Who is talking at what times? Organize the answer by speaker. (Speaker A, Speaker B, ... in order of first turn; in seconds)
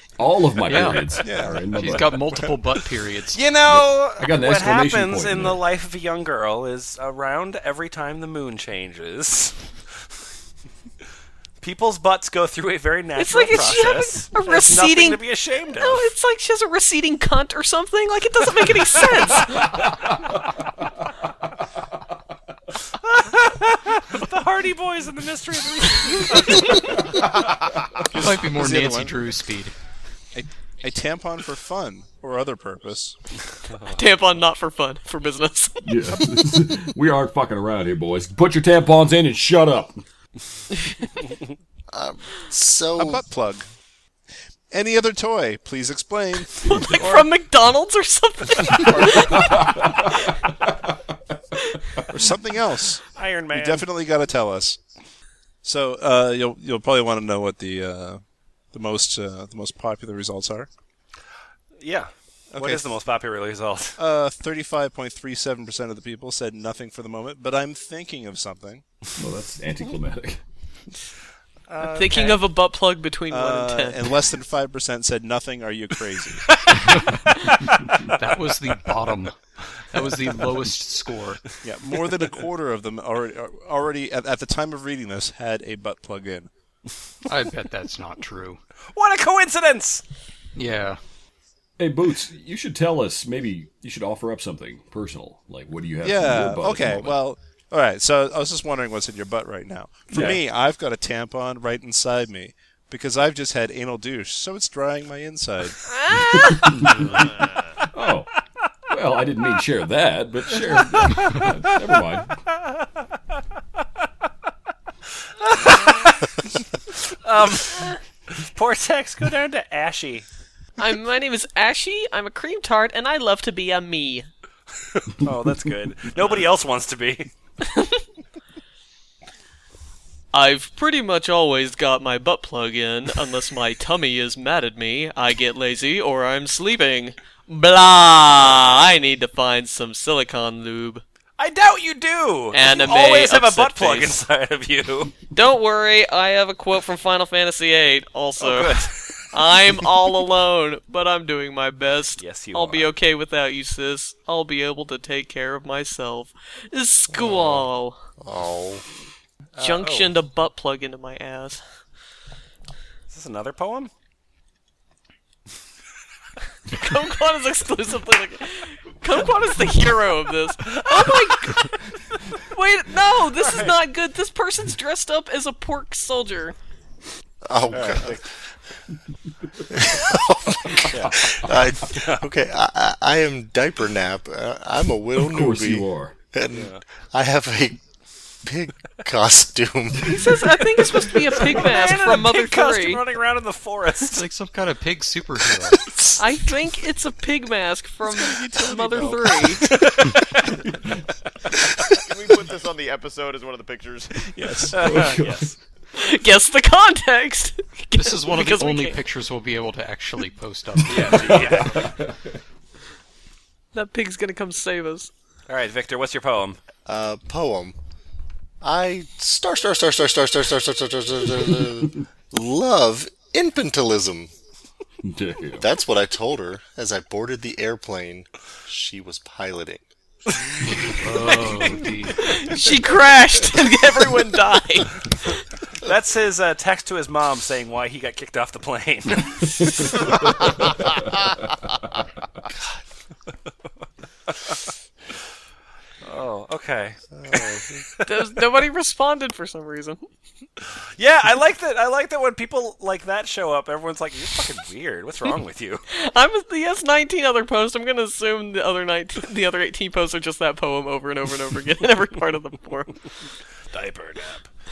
Speaker A: 0.2-2.2, 3.6-5.6, 35.8-40.0, 49.3-50.1, 69.2-70.4, 91.8-97.2, 100.1-100.4, 106.1-108.3, 108.9-112.3, 185.2-186.1, 204.7-205.5, 210.9-212.3, 225.0-225.7, 239.8-240.9
Speaker B: 0.6-3.5, 28.1-29.7, 76.8-77.1, 78.1-81.4, 87.3-88.6, 90.5-91.0, 194.0-195.8, 207.9-211.5, 230.8-232.2
Speaker C: 1.2-2.5, 28.1-29.2, 30.3-33.1, 43.0-43.7, 44.7-47.2, 48.8-49.5, 52.1-54.8, 55.6-58.2, 58.7-60.7, 62.5-63.0, 64.0-68.8, 73.3-76.5, 81.6-86.5, 96.0-105.8, 198.1-200.4, 204.3-205.0, 247.2-247.8
Speaker D: 3.3-9.6, 11.6-16.1, 23.1-26.8, 53.1-53.9, 61.8-64.0, 71.7-72.4, 88.9-90.0, 115.4-116.3, 116.9-120.2, 125.0-127.3, 141.4-145.1, 148.4-149.2, 152.2-152.9, 159.6-160.1, 163.1-163.9, 170.8-171.3, 173.3-173.8, 177.7-178.2, 180.9-181.4, 181.9-182.2, 186.5-186.8, 191.4-194.3, 204.7-205.5, 210.9-211.8, 215.5-216.6, 235.8-239.4, 246.0-248.1, 251.0-255.8, 263.7-264.5
Speaker E: 13.2-19.9, 26.5-26.9, 33.9-36.0, 46.6-50.4, 71.8-74.1, 105.9-107.0, 120.8-124.3, 127.6-128.0, 130.3-141.0, 142.5-144.2, 145.3-158.0, 159.6-161.6, 166.7-176.5, 189.9-193.0, 196.2-199.7, 205.9-209.0, 213.7-215.1, 232.1-235.3, 248.0-250.0, 255.9-263.0
Speaker F: 41.9-43.2, 158.2-158.8, 177.4-178.2, 179.7-187.8, 188.4-190.4, 216.8-217.8, 218.6-224.3, 225.6-229.8
Speaker G: 202.0-204.2